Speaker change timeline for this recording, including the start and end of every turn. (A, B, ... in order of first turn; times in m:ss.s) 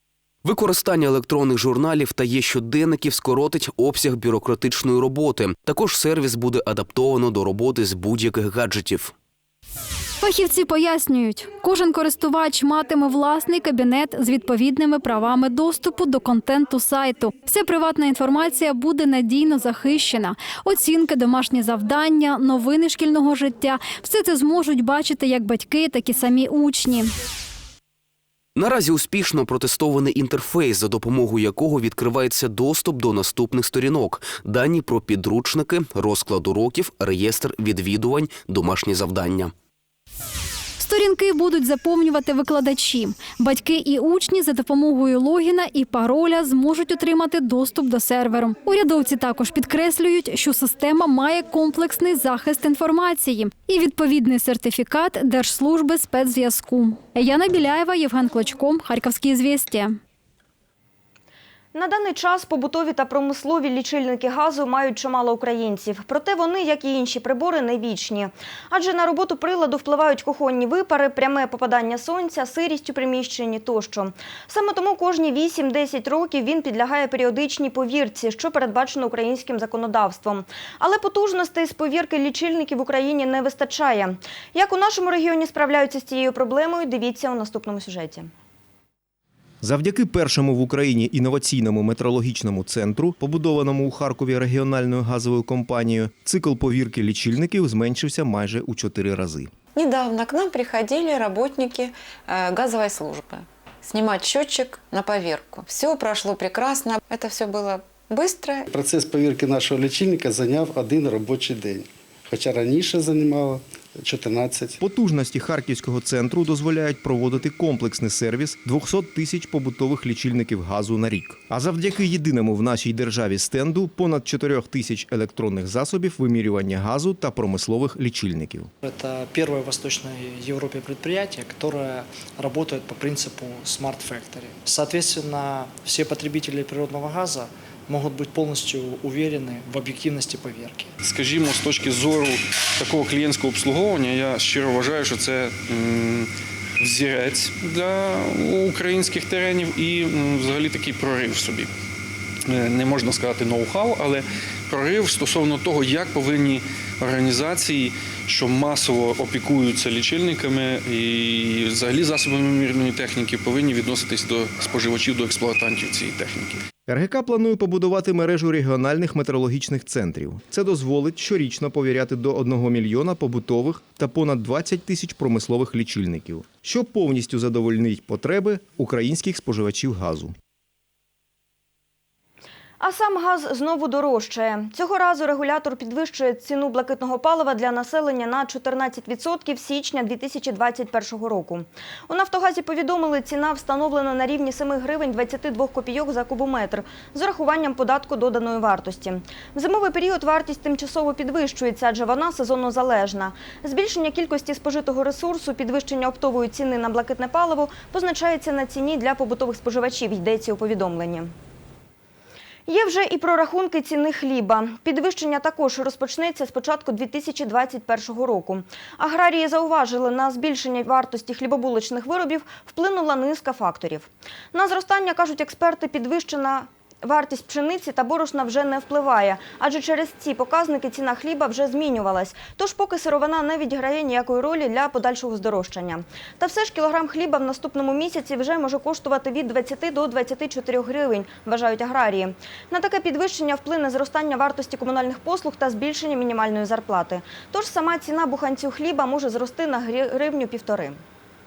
0:00.4-0:09.1 A
0:10.2-0:27.1 B
0:28.6-0:39.5 A
0:40.8-1:00.0 B
1:01.7-1:28.3 C
1:29.6-1:39.5 D
1:39.7-1:48.7 E
1:48.7-1:54.8 F
1:54.8-2:08.7 D
2:08.8-2:21.0 G
2:21.0-2:31.7 H
2:32.5-2:46.6 H
2:46.9-3:00.3 D
3:02.8-3:31.3 C
3:32.7-4:11.0 C